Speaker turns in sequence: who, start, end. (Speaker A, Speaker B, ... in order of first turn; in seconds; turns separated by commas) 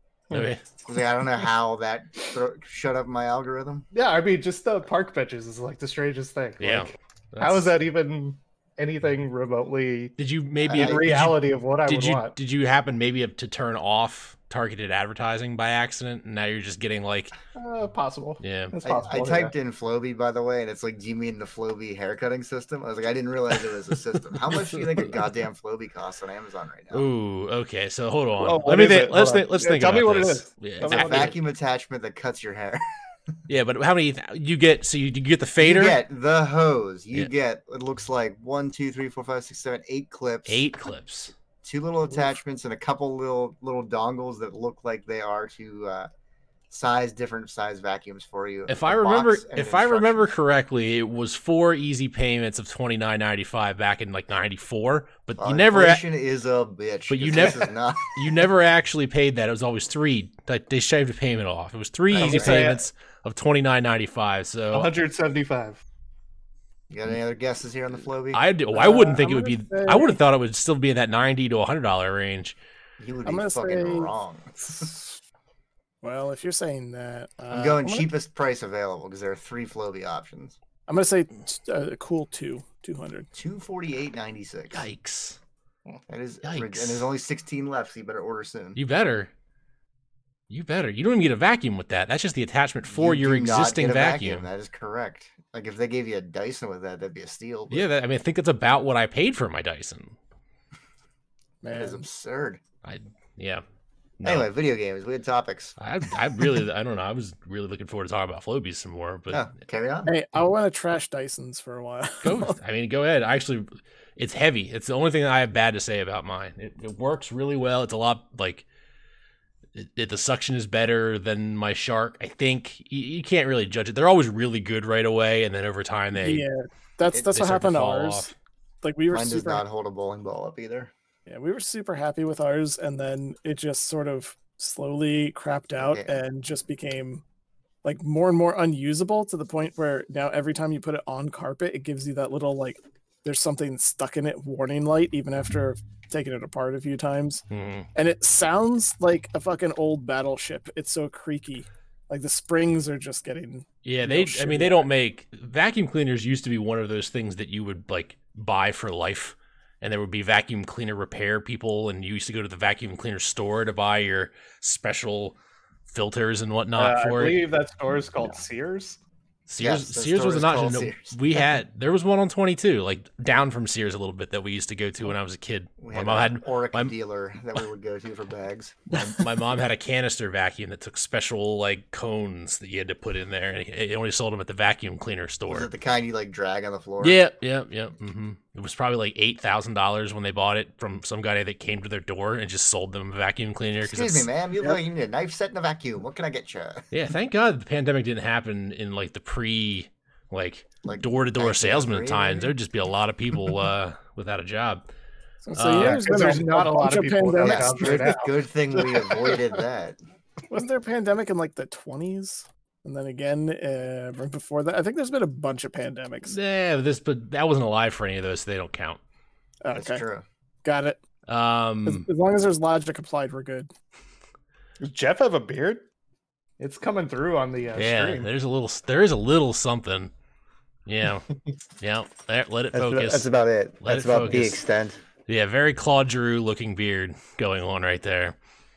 Speaker A: 0.3-0.6, Speaker B: 0.8-3.9, Speaker C: 3.9-10.1, Speaker A: 6.6-7.7, Speaker A: 10.2-17.3, Speaker B: 10.7-11.0, Speaker C: 10.7-12.3, Speaker C: 17.5-19.5, Speaker A: 18.4-18.7, Speaker B: 18.8-27.1, Speaker A: 24.5-24.9, Speaker A: 26.9-31.4, Speaker C: 28.4-31.3, Speaker B: 30.9-32.8, Speaker A: 33.5-36.0, Speaker B: 35.6-40.6, Speaker A: 40.5-41.3, Speaker B: 41.6-46.1, Speaker B: 46.7-50.3, Speaker A: 48.7-56.0, Speaker B: 55.4-58.5, Speaker A: 57.1-64.9, Speaker C: 62.1-62.9, Speaker B: 62.1-62.7, Speaker C: 64.7-65.8, Speaker B: 66.9-68.4, Speaker A: 68.3-72.5, Speaker D: 68.7-70.2, Speaker B: 73.0-74.9, Speaker D: 73.2-74.1, Speaker D: 74.7-75.1, Speaker D: 76.0-78.1, Speaker B: 77.5-80.6, Speaker D: 80.9-83.3, Speaker B: 83.3-84.8, Speaker A: 84.7-85.4, Speaker B: 86.1-88.8, Speaker A: 86.4-87.1, Speaker A: 88.8-89.3, Speaker A: 90.5-94.5, Speaker B: 92.9-97.8, Speaker A: 97.7-100.2, Speaker D: 101.6-102.0, Speaker B: 101.7-102.6, Speaker A: 102.8-103.6, Speaker A: 104.2-104.5, Speaker B: 104.2-105.8, Speaker A: 105.8-109.5, Speaker B: 109.3-110.1, Speaker D: 110.0-112.5, Speaker A: 112.2-118.6, Speaker A: 119.7-126.5, Speaker D: 126.1-128.3, Speaker A: 127.3-128.3, Speaker D: 128.8-129.6, Speaker B: 129.1-130.9, Speaker D: 131.3-137.2, Speaker B: 135.8-136.2, Speaker D: 137.8-147.4, Speaker A: 147.5-147.9, Speaker D: 147.9-154.9, Speaker A: 153.8-165.3, Speaker A: 165.9-167.4, Speaker C: 166.7-169.0, Speaker A: 169.5-176.9, Speaker B: 169.6-171.2, Speaker B: 175.8-179.1, Speaker A: 178.9-185.7, Speaker B: 185.5-187.2, Speaker A: 187.0-194.3, Speaker B: 193.8-196.9, Speaker A: 196.9-204.8, Speaker B: 200.8-202.5, Speaker D: 205.4-208.0, Speaker A: 205.5-206.1, Speaker C: 205.7-209.4, Speaker B: 207.4-210.0, Speaker D: 210.5-216.3, Speaker A: 216.2-219.0, Speaker D: 219.6-220.0, Speaker B: 219.7-220.2, Speaker D: 220.6-221.0, Speaker A: 221.3-222.1, Speaker D: 221.8-223.7, Speaker C: 224.8-225.8, Speaker C: 226.6-228.3, Speaker A: 227.8-230.1, Speaker A: 230.8-231.3, Speaker A: 231.8-233.3, Speaker B: 232.7-235.0, Speaker A: 233.8-234.6, Speaker A: 235.3-238.3